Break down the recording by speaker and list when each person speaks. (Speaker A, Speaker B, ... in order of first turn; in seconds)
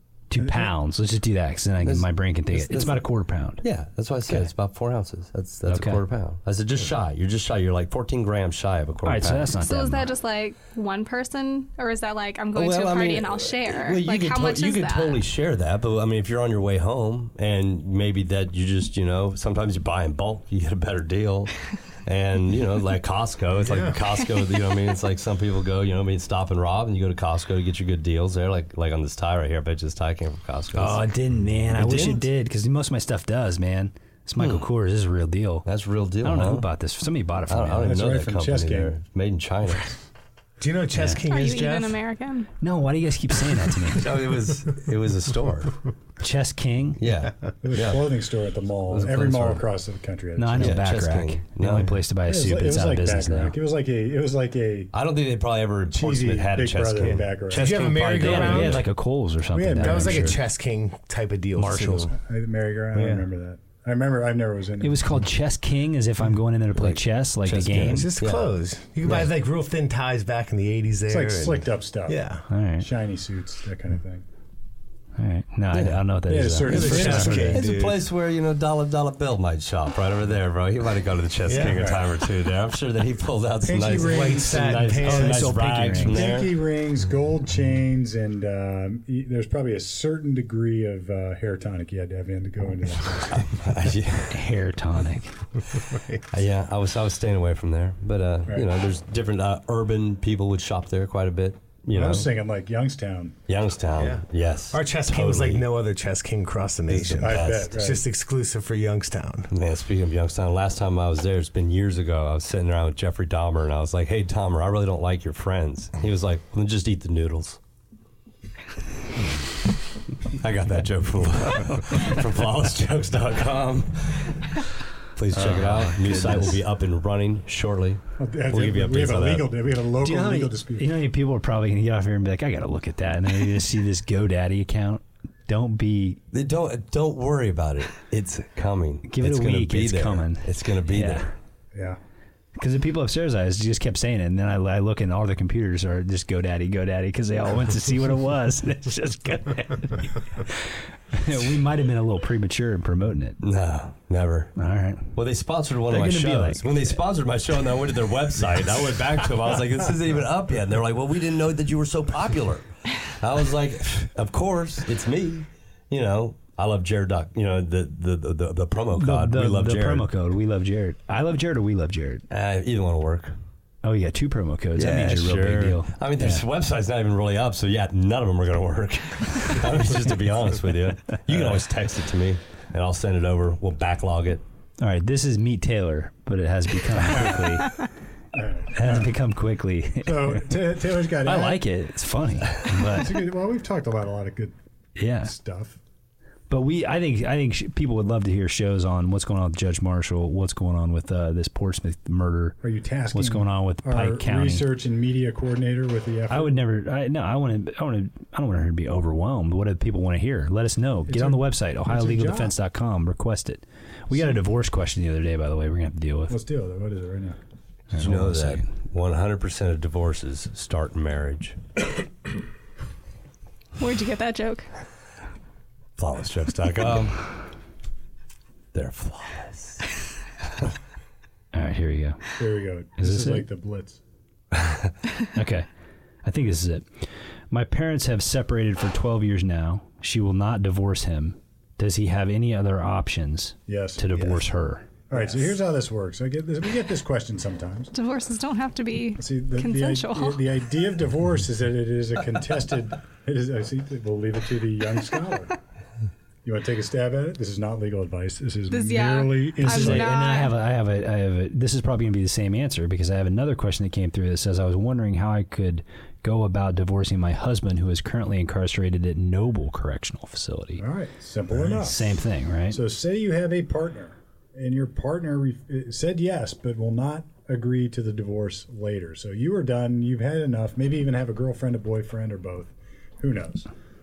Speaker A: 0.3-3.6, 5.7-6.0, 9.0-10.1, 30.7-35.7, 36.2-38.0, 40.9-41.3, 42.6-44.1, 46.2-47.1, 49.0-49.6, 50.4-53.5, 58.1-60.4, 61.5-62.1, 64.8-68.1, 72.5-72.9, 75.2-77.7, 84.9-86.3, 94.3-95.4, 125.3-126.6, 130.0-136.2, 139.1-141.3, 142.6-153.4, 154.6-155.2, 155.9-157.0, 168.9-172.2, 173.8-176.4, 184.8-187.8, 188.7-190.6, 191.2-193.2, 195.0-195.3, 196.5-202.6, 203.1-204.7, 206.3-216.4, 217.9-218.7, 231.5-232.4, 233.0-233.5, 235.3-235.7, 236.2-244.9, 259.6-270.8, 271.5-272.8
Speaker B: 0.4-0.7, 37.8-39.0, 47.6-50.8, 52.3-54.9, 55.9-58.0, 59.5-60.4, 62.1-65.0, 71.1-72.2, 72.8-74.2, 76.3-77.6, 81.7-82.0, 83.7-85.1, 86.1-93.6, 101.9-103.4, 107.2-108.1, 128.2-130.9, 141.7-142.0, 187.2-187.4, 188.3-189.1, 190.0-191.6, 192.8-194.5, 195.2-195.8, 202.6-206.6, 211.1-212.5, 216.3-217.4, 232.4-234.0, 243.7-244.1, 245.1-247.9, 249.2-255.6, 256.4-260.1, 270.8-283.7
Speaker C: 1.8-3.0, 3.6-9.5, 12.6-31.0, 31.8-32.3, 34.4-34.7, 35.6-36.7, 37.5-40.0, 43.9-45.8, 47.0-48.1, 49.0-49.6, 50.6-52.0, 54.9-58.8, 66.8-68.5, 69.0-69.3, 75.7-76.0, 77.5-86.5, 93.3-94.4, 96.3-102.3, 103.5-105.7, 106.9-107.7, 109.5-117.6, 120.3-129.5, 136.3-141.3, 153.4-154.5, 155.1-170.1, 172.3-173.4, 174.8-184.4, 217.9-221.6, 226.0-227.3, 228.7-229.9, 234.6-234.9
Speaker D: 9.6-15.2, 41.3-42.5, 223.8-224.7, 247.9-250.4, 258.7-260.6
Speaker E: 23.6-24.0, 40.6-42.0, 57.1-58.9, 59.8-62.1, 62.9-63.3, 67.5-72.5, 76.7-78.0, 81.5-82.0, 83.6-86.4, 95.7-96.2, 104.0-109.5